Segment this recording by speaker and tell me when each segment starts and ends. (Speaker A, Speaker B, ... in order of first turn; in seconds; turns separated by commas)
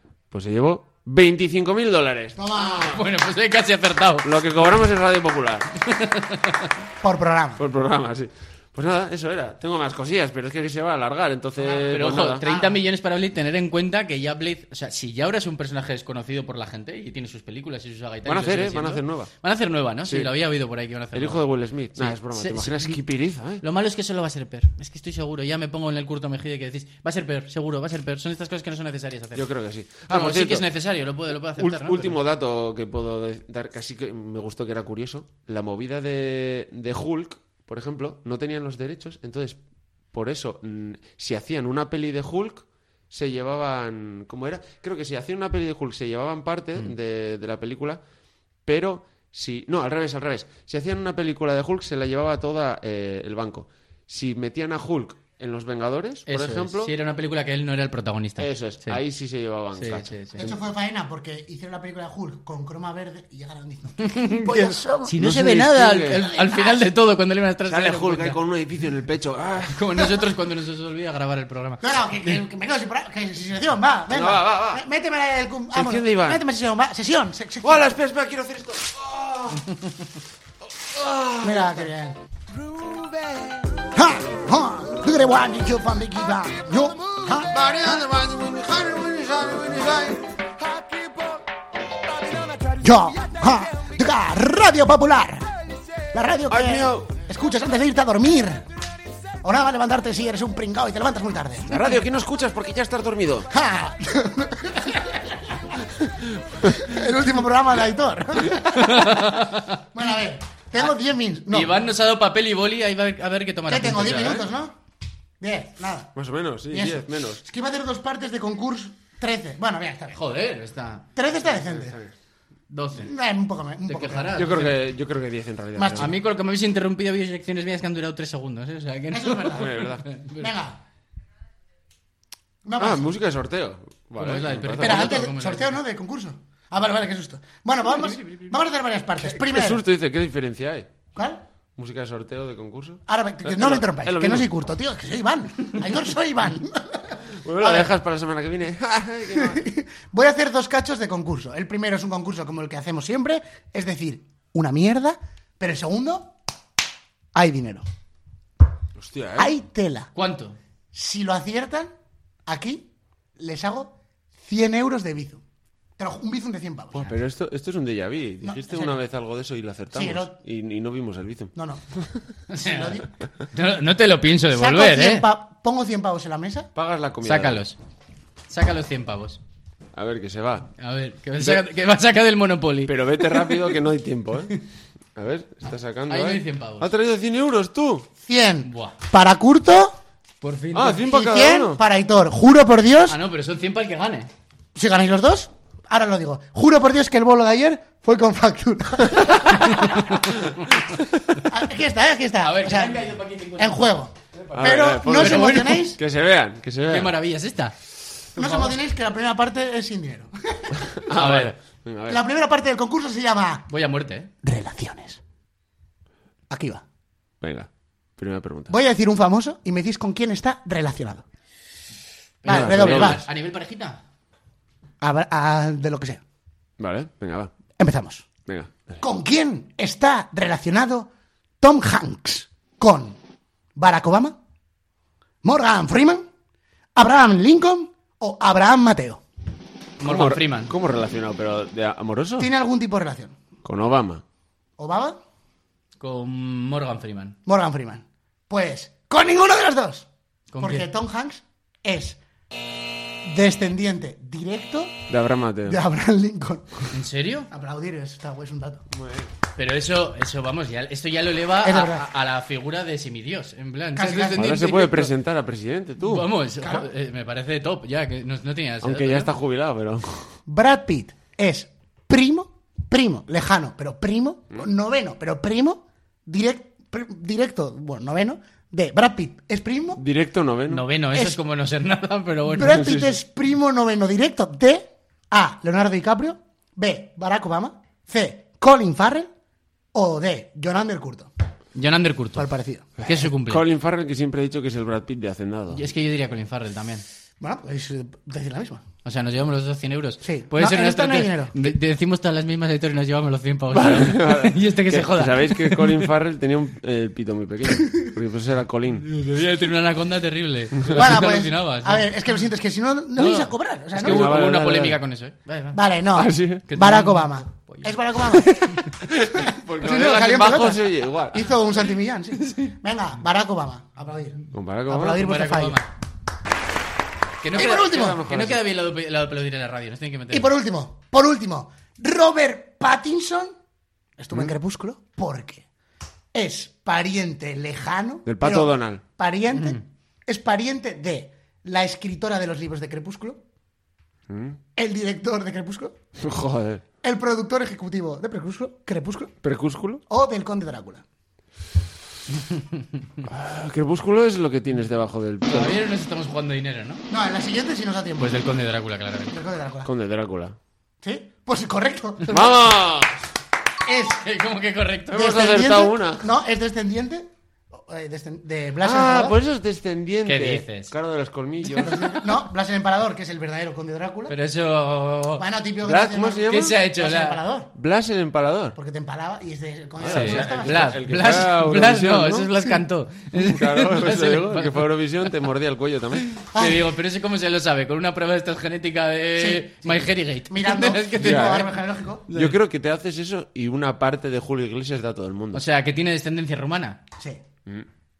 Speaker A: 0.3-3.0, Speaker B: 2.4-3.0, Speaker C: 2.6-4.4, Speaker A: 4.2-5.7, Speaker C: 5.8-6.7, Speaker B: 7.0-7.6, Speaker A: 7.6-12.4, Speaker B: 11.6-12.8, Speaker C: 11.9-21.4, Speaker A: 18.2-19.3, Speaker A: 20.1-20.3, Speaker A: 21.1-23.6, Speaker C: 21.9-23.0, Speaker C: 23.6-29.5, Speaker A: 29.3-30.6, Speaker C: 30.1-32.2, Speaker A: 31.6-39.6, Speaker A: 40.1-48.0, Speaker A: 48.6-56.9, Speaker C: 56.3-59.0, Speaker A: 58.4-60.6, Speaker C: 59.8-60.5, Speaker B: 60.4-65.2, Speaker C: 64.0-68.4, Speaker A: 65.2-66.2, Speaker B: 66.1-66.9, Speaker A: 67.7-70.2, Speaker C: 69.7-72.4, Speaker B: 71.8-77.8, Speaker A: 74.1-74.8, Speaker A: 75.7-76.4, Speaker A: 77.6-79.7, Speaker A: 80.6-81.9, Speaker B: 81.4-82.2, Speaker A: 82.6-83.9, Speaker B: 83.9-87.7, Speaker A: 87.2-91.4, Speaker A: 92.2-92.7, Speaker B: 92.8-95.5, Speaker B: 96.1-98.6, Speaker A: 96.5-97.1, Speaker B: 99.4-101.9, Speaker A: 101.7-103.5, Speaker B: 103.5-105.7, Speaker A: 105.9-106.9, Speaker B: 106.6-109.4, Speaker C: 108.7-109.8, Speaker B: 109.9-111.8, Speaker C: 111.5-114.5, Speaker B: 113.7-114.8, Speaker B: 115.4-116.1, Speaker A: 116.1-117.4, Speaker B: 116.7-120.2, Speaker C: 120.1-121.1, Speaker B: 121.1-122.0, Speaker A: 121.3-122.1, Speaker C: 122.7-123.1, Speaker B: 123.0-124.4, Speaker C: 123.9-124.7, Speaker A: 124.3-126.2, Speaker B: 125.8-126.1, Speaker C: 126.0-130.5, Speaker B: 129.1-130.8, Speaker A: 129.6-130.0, Speaker B: 132.6-133.2, Speaker A: 132.8-135.3, Speaker C: 134.2-135.8, Speaker B: 134.8-139.8, Speaker A: 139.2-141.0, Speaker B: 141.1-141.4, Speaker A: 141.8-144.5, Speaker B: 143.1-147.9, Speaker A: 147.4-149.6, Speaker B: 149.3-156.3, Speaker B: 157.3-157.8, Speaker A: 158.9-159.5, Speaker B: 159.4-160.1, Speaker C: 160.1-160.6, Speaker B: 160.9-161.9, Speaker B: 162.4-165.4, Speaker B: 166.0-167.0, Speaker A: 166.9-172.2, Speaker B: 168.4-169.0, Speaker B: 169.9-170.4, Speaker B: 171.5-171.8, Speaker C: 172.5-175.2, Speaker B: 172.5-173.1, Speaker B: 174.5-176.7, Speaker A: 176.7-177.6, Speaker C: 177.2-177.8, Speaker C: 178.5-179.4, Speaker A: 179.9-180.7, Speaker C: 180.8-183.5, Speaker A: 182.8-184.6, Speaker A: 185.2-188.1, Speaker C: 186.1-186.9, Speaker B: 188.2-190.0, Speaker C: 188.6-188.9, Speaker C: 190.4-191.1, Speaker A: 190.7-191.8, Speaker B: 191.0-193.2, Speaker C: 193.1-194.3, Speaker B: 194.7-200.1, Speaker C: 199.8-200.3, Speaker A: 200.9-201.4, Speaker B: 201.4-206.0, Speaker C: 202.4-205.9, Speaker A: 204.5-207.1, Speaker C: 206.9-207.7, Speaker B: 208.3-210.8, Speaker C: 208.4-208.7, Speaker A: 210.8-212.2, Speaker C: 211.1-211.5, Speaker B: 212.1-213.7, Speaker C: 213.7-214.3, Speaker B: 214.4-215.2, Speaker B: 216.5-216.8, Speaker A: 217.4-218.7, Speaker B: 218.7-221.2, Speaker C: 222.4-224.0, Speaker B: 222.4-223.2, Speaker A: 222.5-223.2, Speaker B: 225.0-226.2, Speaker A: 226.8-227.5, Speaker B: 227.8-228.3, Speaker A: 228.4-229.0, Speaker B: 229.0-233.2, Speaker B: 233.8-234.4, Speaker B: 235.4-236.2, Speaker B: 236.9-239.2, Speaker C: 240.0-240.7, Speaker A: 240.0-242.5, Speaker B: 242.4-243.3, Speaker A: 243.6-244.2, Speaker B: 244.8-245.2, Speaker C: 246.0-247.4, Speaker B: 247.4-250.1, Speaker C: 250.5-250.9, Speaker B: 250.6-252.2, Speaker B: 253.2-255.0, Speaker A: 255.1-255.8, Speaker B: 255.7-256.9, Speaker C: 256.9-257.5, Speaker B: 257.5-258.8, Speaker A: 258.9-259.3, Speaker C: 259.6-265.1, Speaker B: 261.6-262.0, Speaker B: 263.9-264.6, Speaker A: 264.4-266.3, Speaker C: 266.0-269.3, Speaker B: 266.6-266.9, Speaker A: 268.8-270.4, Speaker B: 270.5-280.0, Speaker A: 280.0-280.8, Speaker C: 280.7-282.9, Speaker B: 281.1-281.4, Speaker B: 282.5-289.3, Speaker A: 282.6-283.1, Speaker B: 289.9-291.3, Speaker C: 291.7-292.5, Speaker B: 292.3-293.0, Speaker C: 293.0-293.6, Speaker A: 293.1-295.8, Speaker C: 295.7-297.0, Speaker B: 297.4-298.8, Speaker C: 299.0-306.1, Speaker B: 300.2-301.5, Speaker A: 303.7-309.1, Speaker C: 309.0-312.1, Speaker B: 310.9-314.3, Speaker C: 313.1-315.8, Speaker A: 314.0-315.0, Speaker B: 315.7-318.8, Speaker A: 316.1-316.6, Speaker C: 316.7-317.9, Speaker A: 319.0-321.6, Speaker B: 319.4-325.8, Speaker A: 324.5-325.2, Speaker C: 325.1-325.9, Speaker C: 327.4-330.5, Speaker A: 327.5-328.6, Speaker B: 327.5-328.2, Speaker B: 330.3-333.5, Speaker B: 334.2-335.6, Speaker B: 336.3-343.4, Speaker A: 338.2-339.0, Speaker C: 339.5-339.8, Speaker A: 344.3-344.6, Speaker B: 344.8-345.9, Speaker A: 346.2-346.8, Speaker B: 347.0-349.4, Speaker A: 349.4-350.0, Speaker B: 350.1-351.0, Speaker A: 353.2-355.8, Speaker C: 355.4-357.0, Speaker B: 357.1-358.4, Speaker C: 358.2-359.3, Speaker B: 359.3-359.9, Speaker A: 359.8-360.6, Speaker B: 361.0-362.7, Speaker A: 362.3-363.2, Speaker B: 363.8-364.2, Speaker C: 364.2-365.5, Speaker A: 365.1-366.2, Speaker B: 365.1-369.4, Speaker A: 368.8-372.1, Speaker C: 370.2-370.9, Speaker C: 371.6-372.2, Speaker B: 371.8-374.4, Speaker C: 374.3-375.4, Speaker B: 375.4-377.7, Speaker A: 375.8-376.8, Speaker C: 376.5-377.4, Speaker A: 377.7-378.8, Speaker B: 378.8-381.0, Speaker A: 380.0-382.5, Speaker C: 380.1-384.9, Speaker A: 383.3-386.3, Speaker B: 386.5-386.9, Speaker C: 386.5-391.7, Speaker B: 389.4-392.3, Speaker A: 391.1-391.7, Speaker C: 392.3-392.5, Speaker A: 392.3-395.6, Speaker C: 395.5-397.0